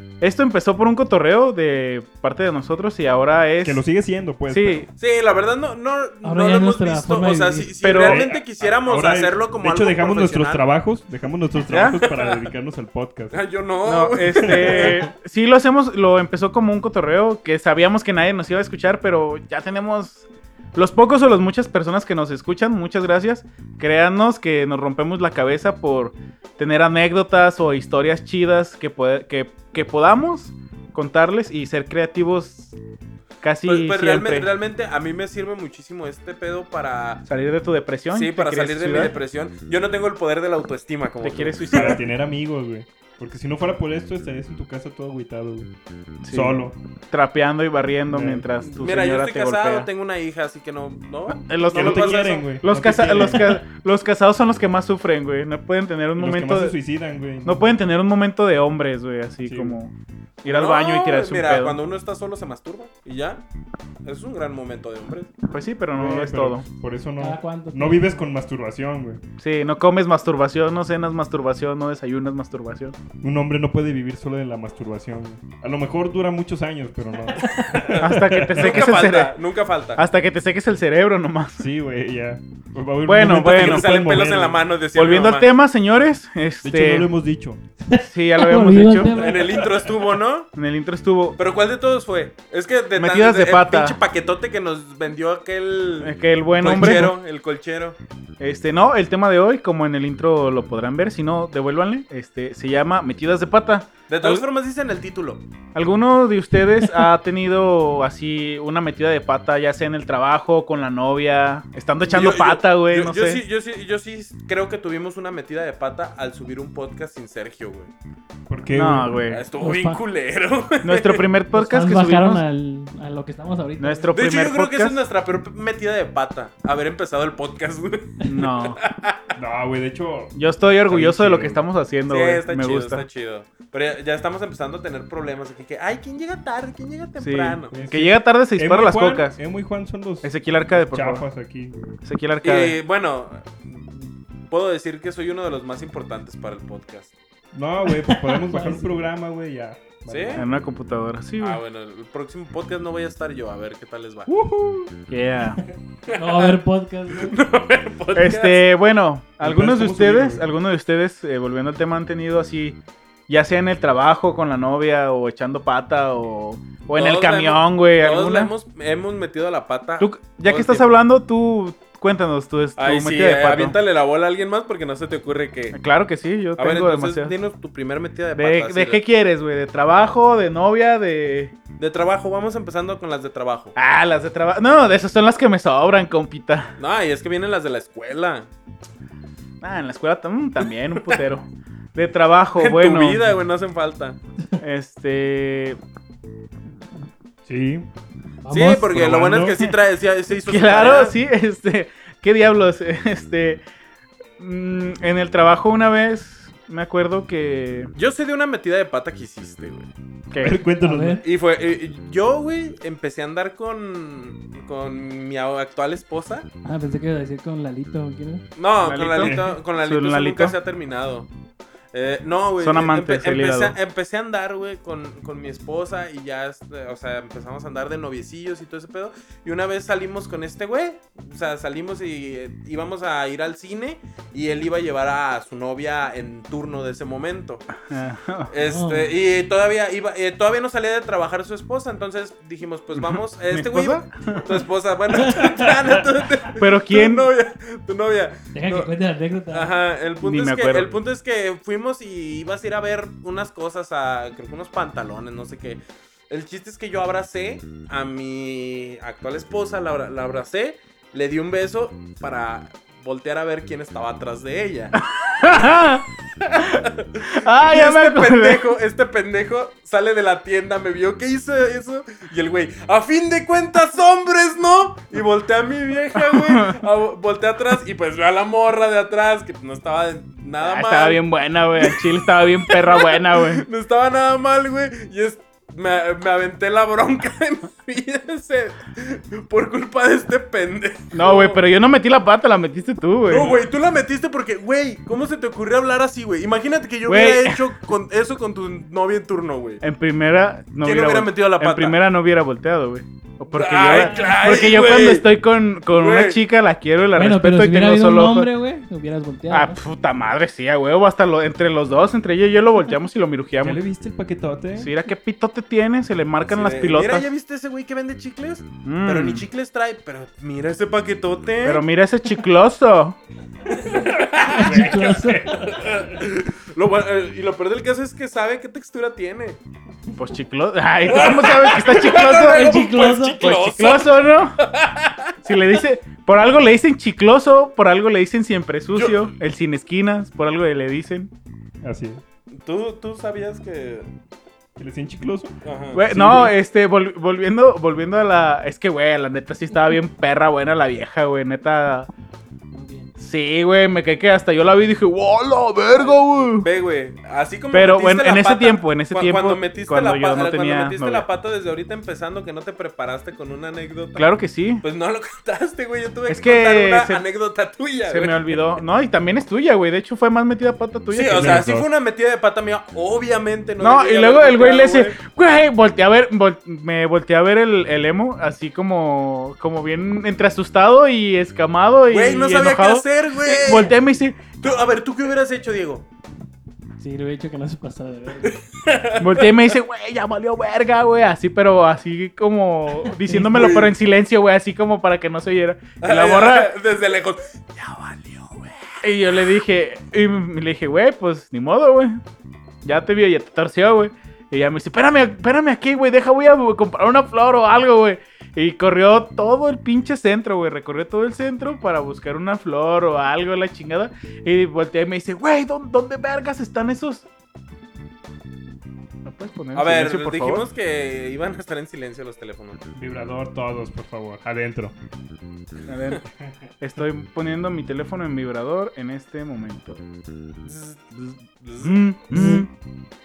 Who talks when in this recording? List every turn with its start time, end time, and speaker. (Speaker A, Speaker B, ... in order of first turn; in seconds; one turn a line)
Speaker A: 0.2-3.8
Speaker B: 3.6-4.9
Speaker A: 4.5-4.9
Speaker C: 5.0-10.6
Speaker D: 6.2-7.7
Speaker A: 7.8-8.2
Speaker B: 8.0-13.4
Speaker A: 11.7-12.0
Speaker C: 11.8-12.5
Speaker C: 13.3-15.1
Speaker A: 13.8-32.7
Speaker B: 14.4-14.8
Speaker A: 33.4-34.5
Speaker C: 33.7-37.3
Speaker A: 37.3-39.1
Speaker C: 38.1-42.0
Speaker A: 41.2-42.0
Speaker B: 41.7-45.7
Speaker A: 46.2-49.9
Speaker B: 46.3-46.8
Speaker B: 48.1-48.5
Speaker C: 48.7-52.5
Speaker A: 51.3-56.8
Speaker B: 51.7-53.6
Speaker B: 56.2-57.6
Speaker A: 57.4-59.9
Speaker B: 59.5-59.8
Speaker A: 60.4-61.8
Speaker C: 60.4-63.4
Speaker C: 64.0-65.3
Speaker A: 65.5-66.7
Speaker B: 66.0-69.2
Speaker D: 67.2-68.2
Speaker A: 69.4-73.0
Speaker B: 73.2-78.9
Speaker D: 77.3-77.8
Speaker C: 77.8-80.0
Speaker A: 78.0-79.3
Speaker A: 80.0-81.6
Speaker B: 81.6-84.6
Speaker A: 83.1-83.9
Speaker C: 83.4-85.5
Speaker A: 85.0-87.1
Speaker B: 86.6-87.6
Speaker D: 87.9-89.7
Speaker A: 88.0-89.2
Speaker C: 89.1-90.5
Speaker B: 89.2-90.0
Speaker A: 90.5-91.4
Speaker C: 91.4-98.0
Speaker A: 93.0-94.0
Speaker A: 96.0-97.2
Speaker A: 98.4-104.5
Speaker C: 104.1-105.4
Speaker A: 105.8-113.4
Speaker C: 112.0-117.9
Speaker B: 118.5-119.2
Speaker A: 118.7-119.5
Speaker C: 119.3-121.3
Speaker D: 119.6-120.0
Speaker A: 120.8-122.4
Speaker D: 121.5-124.1
Speaker A: 123.8-125.0
Speaker C: 124.1-129.3
Speaker A: 128.2-128.8
Speaker B: 129.3-131.6
Speaker A: 130.3-133.1
Speaker C: 132.1-137.8
Speaker A: 137.2-139.4
Speaker B: 137.7-141.8
Speaker A: 140.2-141.3
Speaker A: 142.0-142.8
Speaker C: 142.4-147.1
Speaker B: 147.5-150.5
Speaker D: 148.0-148.9
Speaker C: 150.1-150.4
Speaker A: 150.4-151.6
Speaker C: 151.4-154.3
Speaker B: 154.3-154.9
Speaker A: 155.1-155.6
Speaker C: 156.1-158.7
Speaker D: 156.1-157.3
Speaker A: 158.2-168.5
Speaker B: 159.4-160.5
Speaker C: 166.9-170.9
Speaker A: 170.0-173.8
Speaker C: 172.8-175.8
Speaker A: 175.7-177.3
Speaker C: 176.6-179.0
Speaker A: 178.4-181.5
Speaker C: 181.8-183.8
Speaker A: 183.8-186.7
Speaker C: 186.8-188.5
Speaker A: 189.6-193.2
Speaker C: 192.6-194.2
Speaker A: 194.6-195.8
Speaker B: 197.5-197.9
Speaker D: 198.4-198.9
Speaker C: 198.5-201.2
Speaker B: 198.8-199.7
Speaker A: 200.4-203.6
Speaker A: 204.4-207.9
Speaker C: 207.9-209.9
Speaker A: 210.3-210.6
Speaker B: 210.4-211.2
Speaker D: 210.8-211.2
Speaker C: 211.2-216.5
Speaker D: 216.7-218.4
Speaker C: 218.6-221.3
Speaker A: 218.8-220.6
Speaker B: 219.2-219.6
Speaker C: 221.9-237.7
Speaker A: 222.6-223.8
Speaker A: 237.9-238.5
Speaker C: 238.5-248.9
Speaker D: 238.6-239.2
Speaker A: 243.0-244.5
Speaker D: 245.1-246.0
Speaker A: 246.6-247.3
Speaker D: 248.5-249.7
Speaker C: 249.5-264.9
Speaker A: 250.2-250.9
Speaker A: 265.0-266.0
Speaker C: 266.4-281.2
Speaker A: 266.6-268.6
Speaker A: 276.2-276.8
Speaker A: 280.6-283.6
Speaker C: 281.8-291.6
Speaker A: 291.1-293.6
Speaker C: 293.3-299.8
Speaker A: 297.1-297.6
Speaker A: 299.8-308.5
Speaker C: 300.8-302.0
Speaker C: 303.5-305.3
Speaker D: 303.9-304.4
Speaker C: 305.9-306.4
Speaker D: 307.1-309.8
Speaker A: 309.5-313.8
Speaker B: 313.6-314.9
Speaker A: 314.8-317.3
Speaker C: 316.5-321.9
Speaker A: 318.8-319.5
Speaker A: 321.6-323.2
Speaker C: 323.7-329.6
Speaker D: 324.4-325.8
Speaker B: 324.5-325.3
Speaker A: 330.2-332.7
Speaker C: 331.1-335.4
Speaker D: 332.3-333.4
Speaker A: 333.4-334.6
Speaker A: 335.4-341.3
Speaker C: 338.9-339.3
Speaker B: 341.8-342.2
Speaker C: 342.5-344.1
Speaker B: 344.8-345.6
Speaker C: 345.6-346.0
Speaker A: 345.9-352.1
Speaker B: 346.1-346.6
Speaker D: 352.7-353.1
Speaker A: 353.2-356.7
Speaker C: 355.9-364.3
Speaker A: 357.7-361.3
Speaker A: 364.2-364.8
Speaker C: 364.8-368.8
Speaker A: 366.3-367.2
Speaker A: 368.1-371.7
Speaker C: 371.1-375.2
Speaker B: 371.3-371.9
Speaker A: 373.8-384.8
Speaker C: 382.1-384.0
Speaker C: 384.6-386.1
Speaker D: 387.0-388.6
Speaker C: 388.4-389.6
Speaker A: 389.2-396.7
Speaker D: 393.2-393.7
Speaker C: 393.5-393.9
Speaker C: 396.0-398.6
Speaker A: 399.0-402.2
Speaker A: 402.8-417.3
Speaker A: 419.2-420.7
Speaker C: 419.8-422.9
Speaker B: 422.9-424.9
Speaker A: 425.9-426.2
Speaker A: 426.8-430.0
Speaker C: 430.6-432.0
Speaker A: 431.8-432.7
Speaker B: 432.4-432.6